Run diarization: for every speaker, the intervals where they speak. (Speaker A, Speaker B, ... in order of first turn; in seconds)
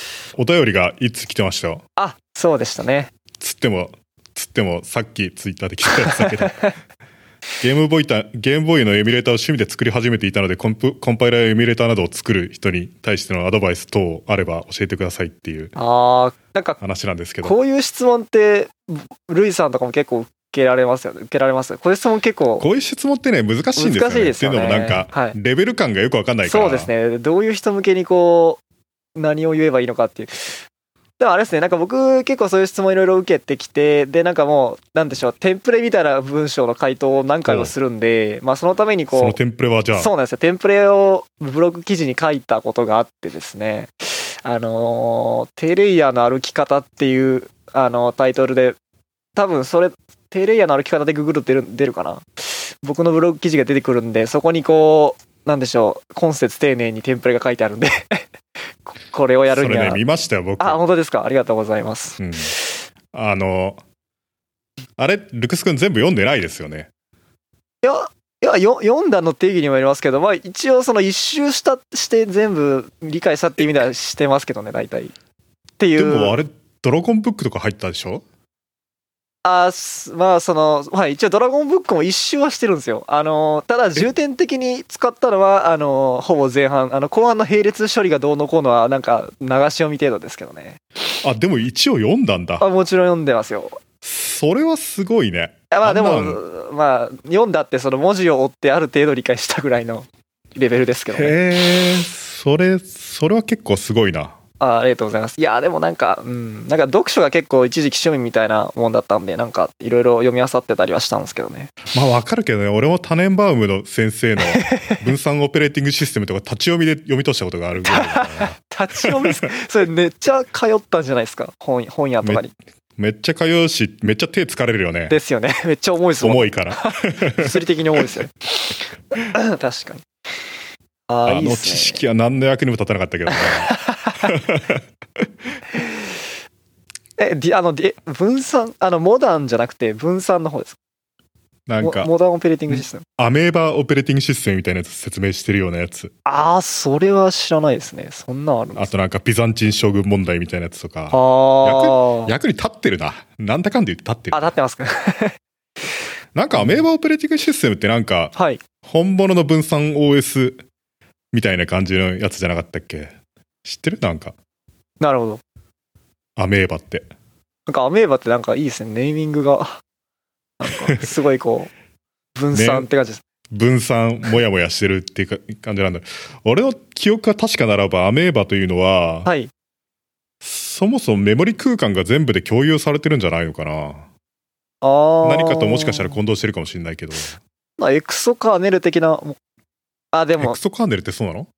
Speaker A: 0.4-1.8, 3.4-6.7, 7.6-15.8, 16.8-17.6, 22.6-26.9, 37.5-37.7, 39.1-40.1, 59.5-60.8, 62.2-62.5, 63.1-63.8, 65.0-66.9, 76.0-78.2, 91.2-92.7, 94.0-96.4, 101.1-104.4, 111.9-119.5, 123.0-125.2, 126.2-127.6, 131.3-135.3, 141.7-142.1, 142.7-146.1, 148.8-154.5, 156.3-160.6, 161.3-164.3, 166.4-167.1, 170.7-171.0, 172.5-172.9, 173.5-179.3, 180.4-184.1, 185.2-187.4, 190.4-191.5
Speaker B: 2.0-3.1, 5.9-6.7, 15.8-16.8, 17.4-22.6, 23.8-25.4, 26.4-28.6, 29.2-30.6, 31.2-39.4, 40.0-48.8, 49.4-58.2, 58.9-60.0, 60.6-62.7, 67.8-75.1, 75.8-76.4, 79.4-90.8, 92.6-93.8, 95.7-101.3, 104.6-111.7, 114.6-115.0, 117.8-122.5, 125.1-130.1, 131.1-132.0, 133.3-134.3, 135.8-136.0, 137.2-140.8, 141.8-143.0, 146.2-148.8, 151.1-152.3, 154.3-155.4, 156.5-156.8, 158.4-158.6, 165.0-165.4, 167.7-169.8, 170.6-171.7, 172.4-173.2, 179.3-179.5, 184.8-186.2, 187.8-189.4, 190.1-190.6